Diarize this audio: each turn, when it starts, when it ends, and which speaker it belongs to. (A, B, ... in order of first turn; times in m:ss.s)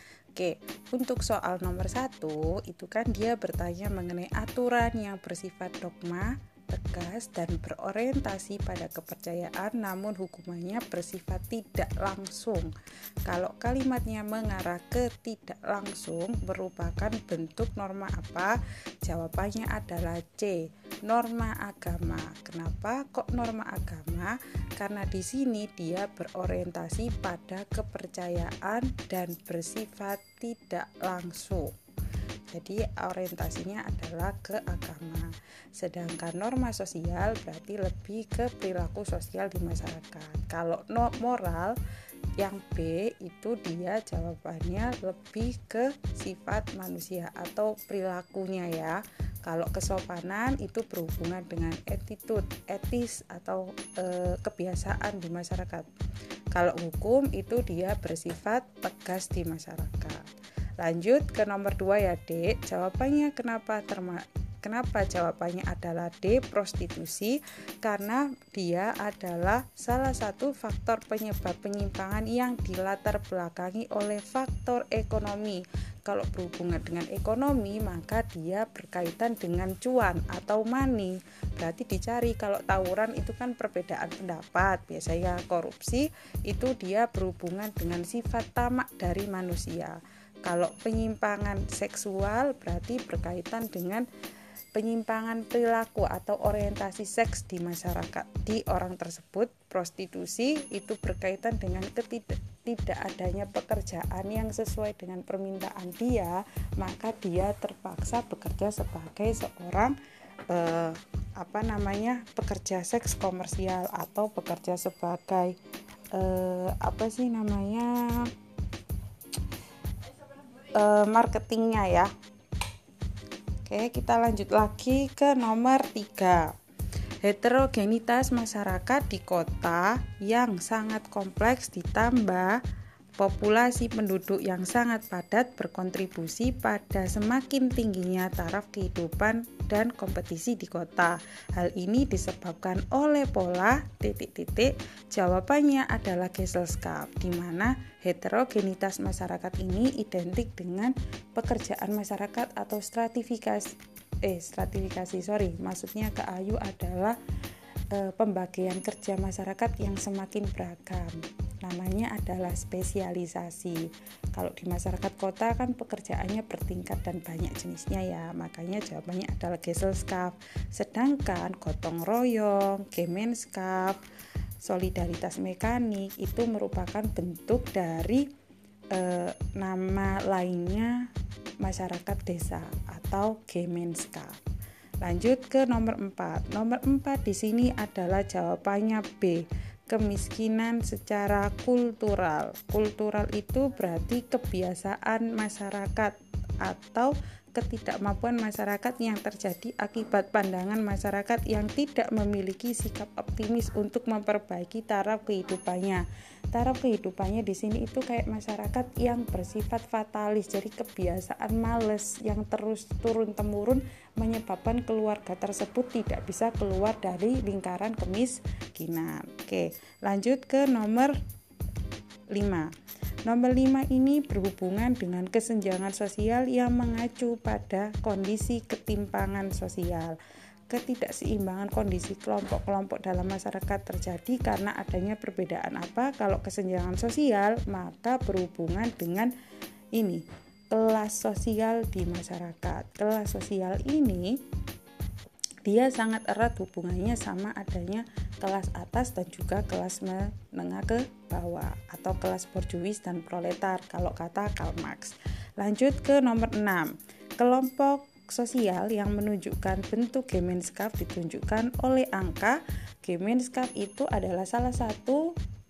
0:00.4-0:12.7 A
0:13.3-0:31.7 A
0:32.5-0:41.8 A
0:42.4-0:55.9 A
0:56.5-1:00.2 A
1:00.8-1:34.1 A
1:34.8-1:50.0 A
1:50.5-1:55.6 A
1:56.1-1:58.3 A
2:00.1-2:02.1 A
2:03.6-2:06.5 A
2:07.2-2:12.6 A
2:13.2-2:37.2 A
2:37.9-2:54.0 A
2:54.6-2:58.2 A
2:58.9-3:01.0 A
3:01.6-3:04.4 A
3:05.0-3:41.2 A
3:42.3-3:42.7 A
3:43.3-3:50.2 A
3:50.7-3:59.3 A
4:00.0-4:04.3 A
4:05.7-4:25.2 A